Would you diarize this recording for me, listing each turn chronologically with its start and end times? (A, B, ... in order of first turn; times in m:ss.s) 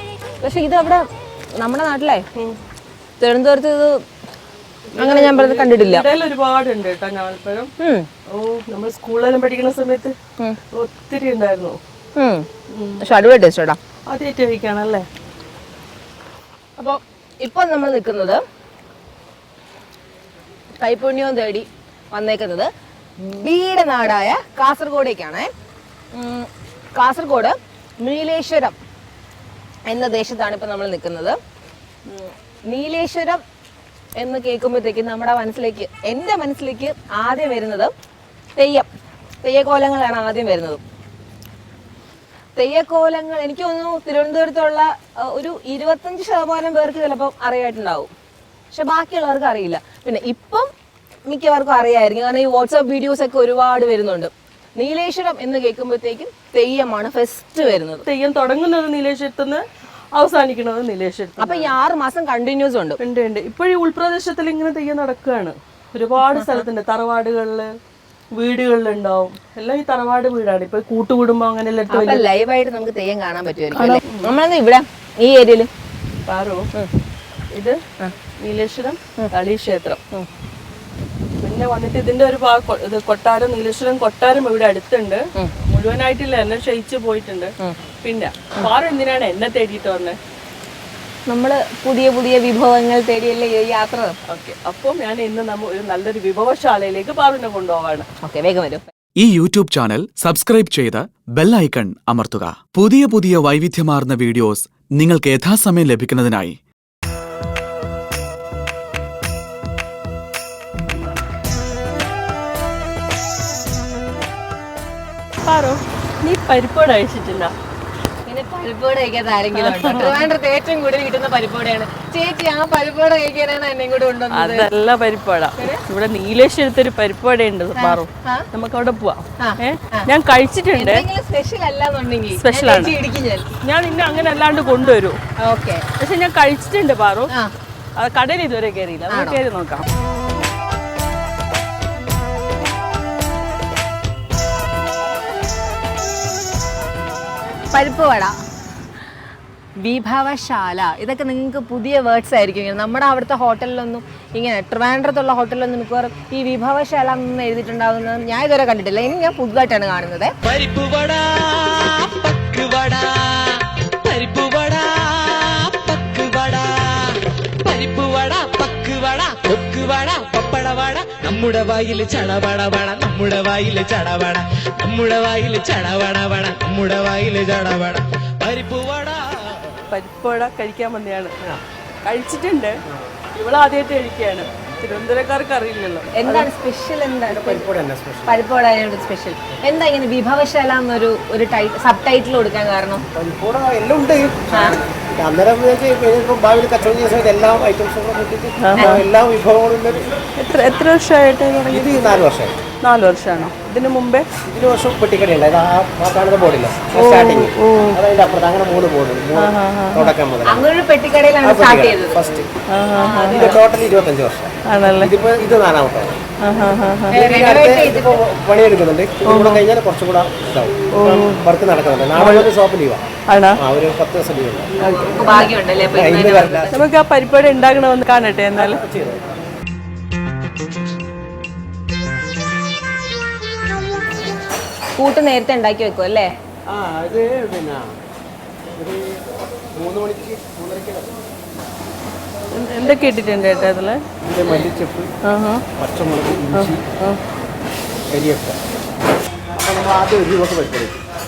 0:00.4-0:01.0 A
0:01.6-0:02.2 A
0:03.2-0:04.0 A
0:04.9-0:07.7 B
0:05.0-0:06.0 A
0:07.8-0:08.1 A
0:08.4-0:10.1 B
0:10.7-0:11.8 B
0:12.2-0:12.5 A
0:12.8-0:13.0 B
0:13.0-0:13.8 A
0:14.1-0:15.0 B
0:16.8-0:18.4 A
0:20.8-0:25.5 A
0:26.1-0:28.8 A
0:29.9-0:31.4 A
0:32.1-0:33.4 A
0:34.2-0:37.9 A
0:38.6-0:38.9 A
0:39.4-0:40.8 A
0:42.6-0:48.1 A
0:48.7-0:50.7 A
0:51.3-0:58.0 A
0:58.1-0:59.6 B
1:00.2-1:01.8 B
1:01.4-1:03.0 A
1:03.0-1:07.7 B
1:06.3-1:06.6 A
1:08.4-1:12.2 B
1:11.9-1:15.7 A
1:13.7-1:14.3 B
1:16.3-1:16.6 B
1:18.4-1:20.0 B
1:21.4-1:30.2 B
1:31.3-1:34.1 A
1:34.3-1:38.1 B
1:38.2-1:38.8 A
1:39.2-1:46.6 C
1:55.5-1:57.5 B
1:58.3-2:04.7 A
1:59.6-2:00.3 B
2:04.3-2:11.0 B
2:05.6-2:05.8 A
2:07.8-2:08.5 A
2:09.4-2:10.1 A
2:10.7-2:13.5 A
2:12.4-2:13.0 B
2:13.6-2:15.2 B
2:15.4-2:15.8 A
2:16.0-2:17.3 B
2:18.0-2:19.8 B
2:19.1-2:19.4 A
2:27.7-2:28.4 A
2:29.8-2:40.3 A
2:40.4-2:59.6 D
2:59.9-3:01.3 B
3:02.0-3:02.8 B
3:03.3-3:06.5 B
3:06.2-3:07.7 A
3:07.3-3:08.4 E
3:08.3-3:13.0 A
3:13.1-3:20.1 E
3:14.5-3:14.8 A
3:18.6-3:19.1 B
3:18.8-3:19.0 A
3:20.4-3:22.2 B
3:21.7-3:22.6 E
3:22.8-3:24.3 B
3:24.5-3:30.7 E
3:26.9-3:28.0 B
3:29.4-3:30.2 B
3:30.5-3:32.4 A
3:31.4-3:32.5 E
3:32.7-3:33.6 B
3:33.0-3:33.6 A
3:33.2-3:36.2 E
3:34.7-3:35.1 B
3:36.4-3:37.2 B
3:37.1-3:38.2 A
3:37.2-3:43.0 E
3:39.3-3:39.6 B
3:40.9-3:41.5 B
3:42.2-3:42.5 B
3:43.3-3:43.6 B
3:43.6-3:44.7 E
3:44.8-3:45.5 B
3:44.8-3:46.9 A
3:45.9-3:46.8 E
3:46.7-3:48.8 B
3:48.5-3:49.2 E
3:55.0-3:56.3 A
3:56.7-3:57.9 E
3:58.8-3:59.2 E
3:59.8-4:01.1 E
4:02.5-4:04.0 B
4:04.2-4:05.1 E
4:05.3-4:05.6 B
4:05.8-4:06.8 E
4:06.5-4:07.2 B
4:08.1-4:08.6 E
4:09.6-4:11.0 E